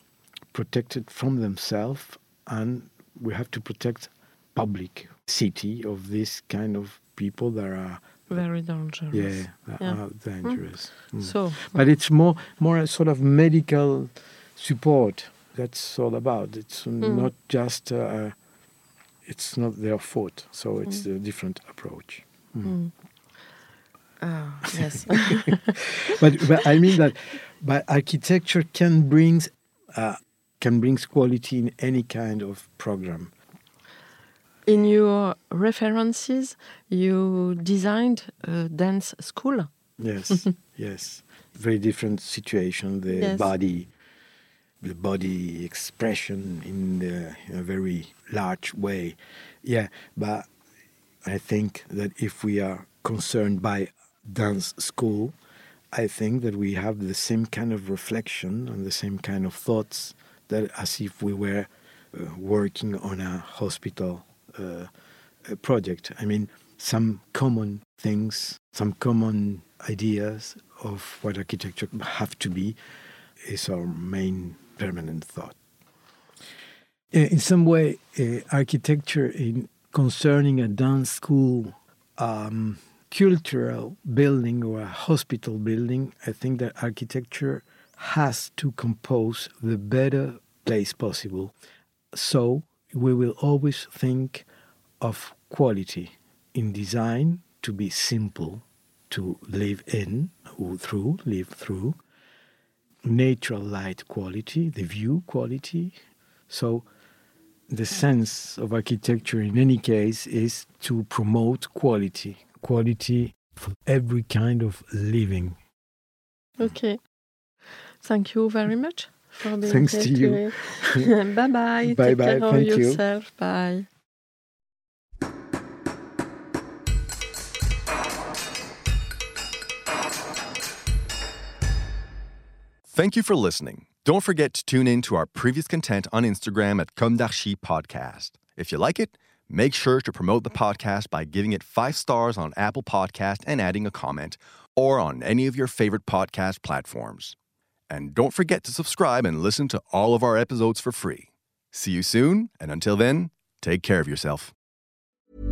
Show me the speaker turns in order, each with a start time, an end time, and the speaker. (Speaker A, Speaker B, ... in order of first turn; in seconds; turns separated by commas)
Speaker A: 0.5-8.5, Speaker B: 8.3-11.7, Speaker A: 9.1-18.3, Speaker B: 17.0-17.3, Speaker A: 19.2-22.8, Speaker B: 22.6-22.9, Speaker B: 24.2-25.7, Speaker A: 26.2-33.3, Speaker B: 34.6-39.7, Speaker A: 40.0-43.9, Speaker B: 43.1-43.5, Speaker A: 44.8-50.5, Speaker A: 51.2-55.4, Speaker A: 55.9-64.9, Speaker A: 65.5-72.8, Speaker A: 73.4-75.6, Speaker A: 77.1-91.5, Speaker A: 92.1-94.5, Speaker A: 95.0-102.0, Speaker A: 103.0-106.0, Speaker A: 106.5-106.8, Speaker A: 107.7-115.6, Speaker B: 116.6-117.0, Speaker B: 118.0-123.8, Speaker A: 119.6-121.1, Speaker A: 121.8-123.0, Speaker C: 132.9-147.3, Speaker C: 147.9-154.5